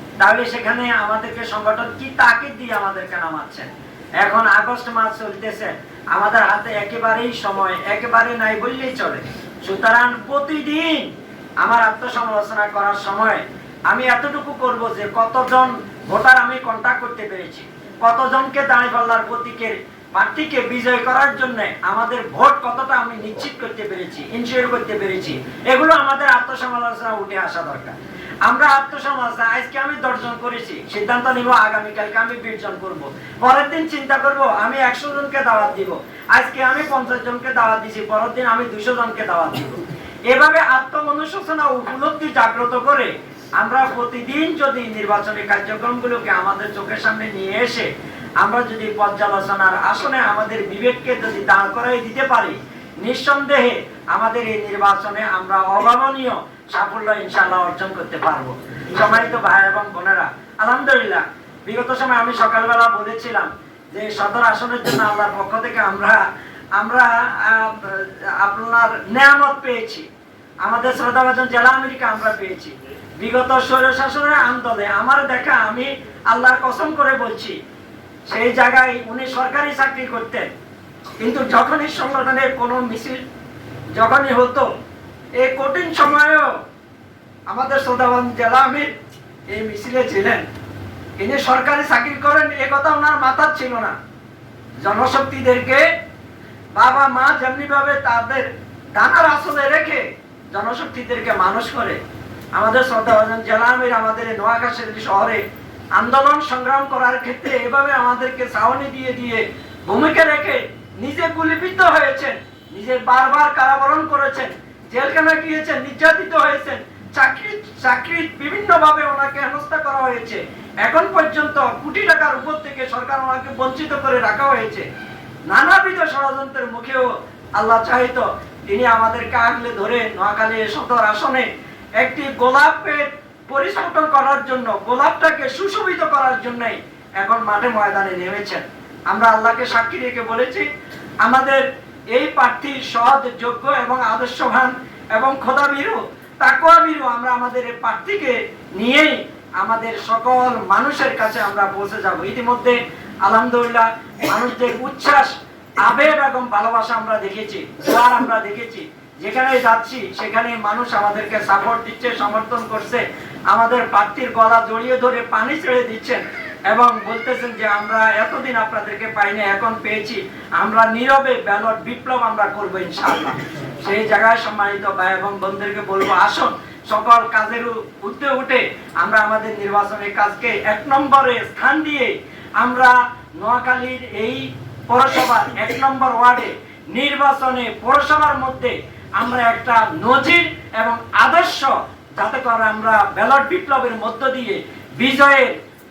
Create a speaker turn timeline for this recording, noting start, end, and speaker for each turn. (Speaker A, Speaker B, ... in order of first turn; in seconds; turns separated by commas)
Speaker A: 0.2-70.1, Speaker A: 70.6-77.6, Speaker A: 78.3-80.5, Speaker A: 81.2-83.2, Speaker A: 84.0-84.7, Speaker A: 85.4-86.6, Speaker A: 87.5-88.9, Speaker A: 89.5-90.4, Speaker A: 91.2-94.0, Speaker A: 94.8-95.9, Speaker A: 96.8-102.0, Speaker A: 102.5-105.4, Speaker A: 106.0-124.9, Speaker A: 125.5-140.7, Speaker A: 141.2-195.6